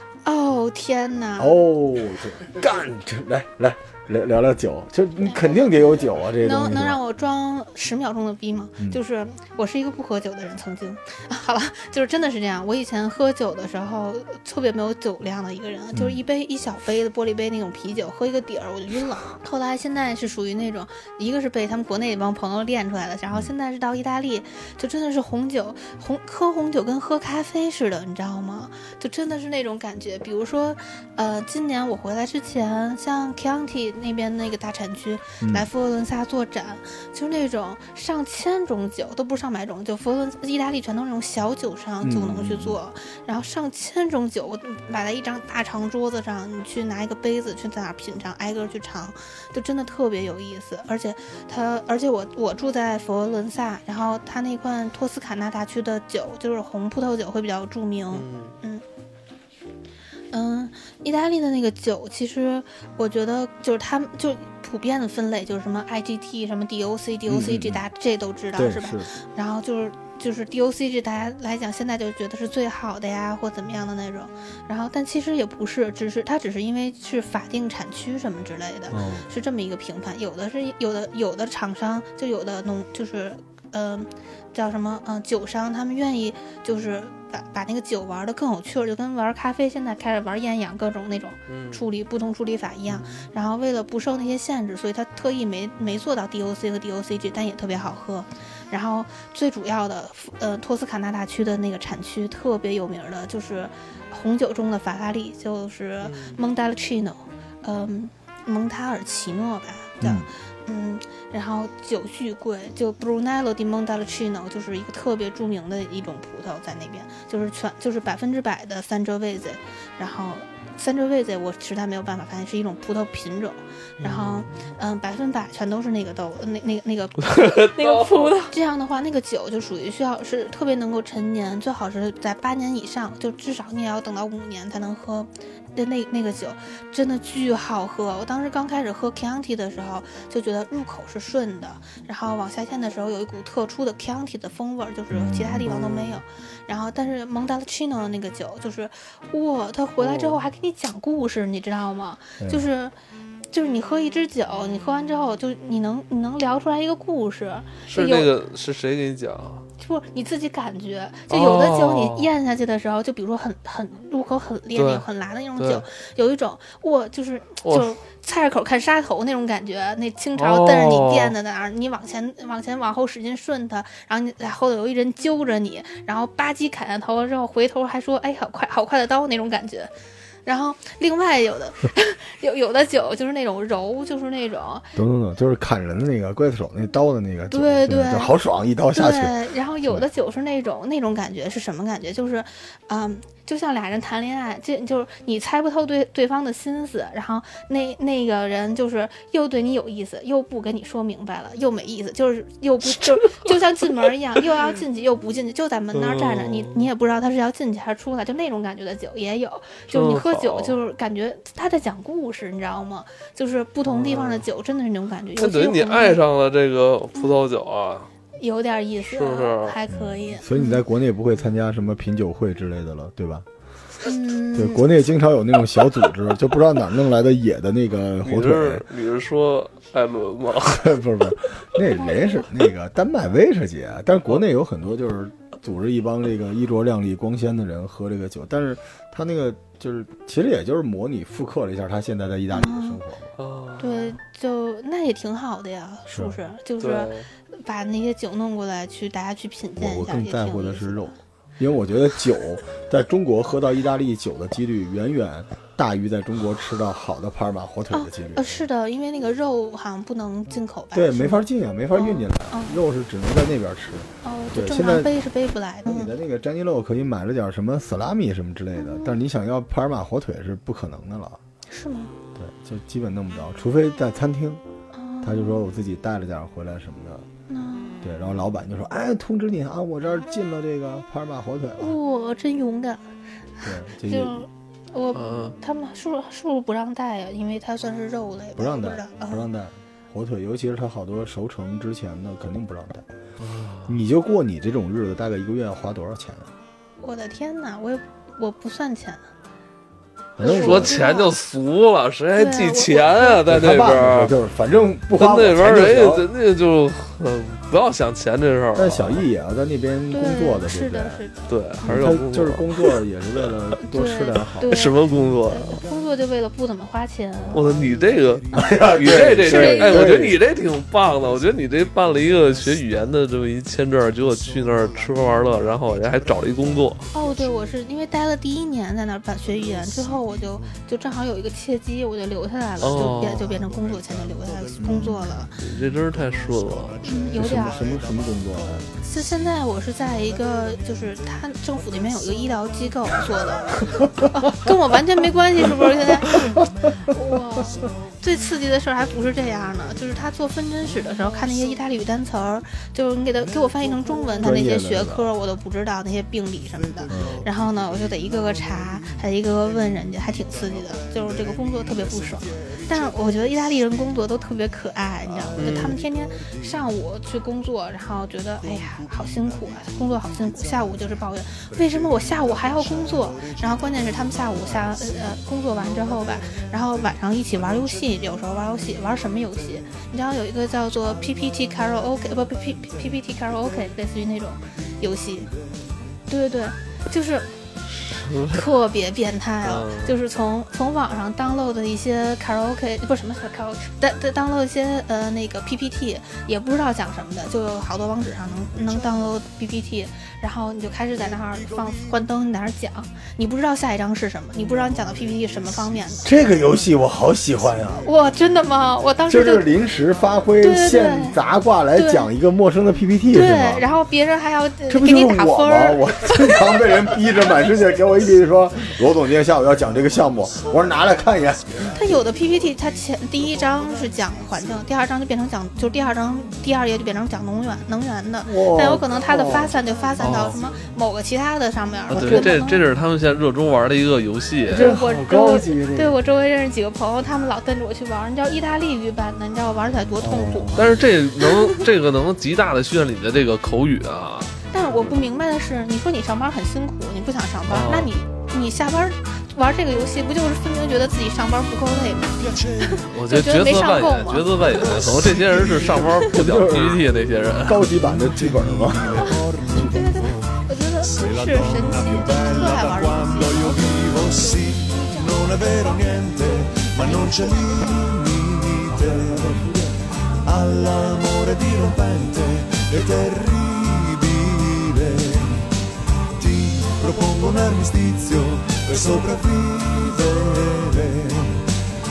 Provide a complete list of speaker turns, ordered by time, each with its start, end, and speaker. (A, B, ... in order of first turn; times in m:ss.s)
0:00.2-0:01.6 A
0:01.4-0:07.0 B
0:05.2-0:58.8 A
0:15.9-0:16.2 B
0:35.4-0:35.7 B
0:42.0-0:42.8 B
0:58.1-0:58.6 C
1:00.3-2:32.9 A
1:07.3-1:07.8 B
1:08.6-1:09.1 B
1:18.9-1:19.3 B
1:31.5-1:31.8 C
1:32.9-1:33.3 C
1:46.0-1:46.4 C
1:50.0-1:50.3 B
2:04.0-2:04.5 C
2:07.2-2:08.5 C
2:25.1-2:25.7 B
2:25.6-2:26.2 C
2:30.0-2:30.4 C
2:32.4-2:32.7 B
2:33.5-2:38.3 A
2:37.9-2:39.6 C
2:39.8-2:59.9 A
2:41.3-2:42.3 C
2:44.7-2:45.1 C
2:45.6-2:45.8 C
2:47.6-2:47.9 C
2:50.4-2:51.3 C
3:00.4-3:04.9 A
3:05.0-3:09.3 B
3:07.5-3:08.3 A
3:08.9-3:36.2 A
3:25.9-3:26.9 C
3:29.9-3:30.8 C
3:33.8-3:34.5 C
3:35.4-3:38.1 C
3:38.4-3:40.8 A
3:39.0-3:39.8 C
3:39.9-3:43.4 B
3:44.0-3:44.9 A
3:44.5-3:48.8 B
3:48.2-3:51.0 C
3:50.7-4:03.3 B
3:52.0-3:52.5 A
4:02.5-4:03.0 A
4:03.4-4:04.2 C
4:03.8-4:11.2 A
4:06.1-4:06.4 B
4:06.8-4:07.3 C
4:09.8-4:18.6 B
4:17.9-4:22.8 A
4:20.9-4:25.1 B
4:24.2-4:26.1 A
4:25.8-4:31.4 B
4:28.7-4:29.2 A
4:31.7-4:32.1 A
4:32.3-4:34.6 B
4:34.9-4:35.6 A
4:35.2-4:37.3 B
4:37.5-4:38.0 A
4:38.0-4:42.0 B
4:41.8-4:43.1 A
4:43.6-4:49.5 A
4:43.6-4:44.4 B
4:45.1-4:45.6 C
4:48.6-4:53.1 B
4:53.4-4:54.0 C
4:53.9-4:56.5 B
4:57.0-4:59.2 A
5:00.4-5:01.0 B
5:00.4-5:01.3 A
5:00.4-5:04.3 C
5:02.3-5:03.5 A
5:03.5-5:06.3 B
5:05.2-5:09.2 C
5:08.7-5:11.2 B
5:10.1-5:12.1 A
5:11.5-5:12.8 C
5:11.8-5:14.8 B
5:13.8-5:17.7 A
5:14.7-5:15.8 C
5:17.5-5:19.7 D
5:17.5-5:27.0 C
5:18.5-5:20.4 B
5:19.4-5:20.1 A
5:21.0-5:23.5 D
5:24.0-5:27.5 D
5:27.1-5:35.6 A
5:29.5-5:30.7 D
5:32.8-5:39.0 D
5:32.8-5:33.5 C
5:34.8-5:35.5 B
5:35.6-5:37.0 C
5:37.0-5:37.9 A
5:37.3-5:38.9 B
5:39.0-6:25.5 A
5:43.2-5:44.1 D
5:44.0-5:44.7 B
5:45.6-5:46.6 B
5:47.7-5:48.0 D
5:53.8-5:54.5 D
5:54.4-5:55.3 B
5:56.9-5:59.2 D
5:57.1-5:57.4 B
5:59.7-6:03.9 D
6:05.4-6:06.6 D
6:05.6-6:06.0 C
6:08.9-6:11.1 D
6:11.7-6:18.2 D
6:25.5-6:25.7 D
6:26.3-6:27.5 A
6:27.9-6:28.7 C
6:28.2-6:46.3 A
6:29.6-6:30.2 C
6:44.9-6:46.2 D
6:46.2-6:48.1 B
6:48.0-6:49.8 A
6:49.3-6:53.9 B
6:50.6-6:51.4 A
6:51.9-6:52.3 A
6:53.3-6:56.9 A
6:54.9-7:01.9 B
7:01.9-7:12.9 A
7:08.4-7:09.8 B
7:10.2-7:10.6 C
7:12.1-7:14.9 C
7:12.2-7:12.5 B
7:14.7-7:16.2 B
7:14.7-7:21.8 A
7:20.2-7:21.0 B
7:20.8-7:24.5 C
7:24.7-7:34.8 A
7:27.7-7:28.1 C
7:32.4-7:33.0 D
7:33.1-7:38.1 C
7:34.6-7:36.3 D
7:36.2-7:37.0 B
7:37.6-7:39.9 B
7:38.0-7:49.9 D
7:39.2-7:46.2 A
7:46.7-7:48.0 A
7:48.9-7:49.9 B
7:50.4-7:55.7 D
7:56.3-8:01.8 D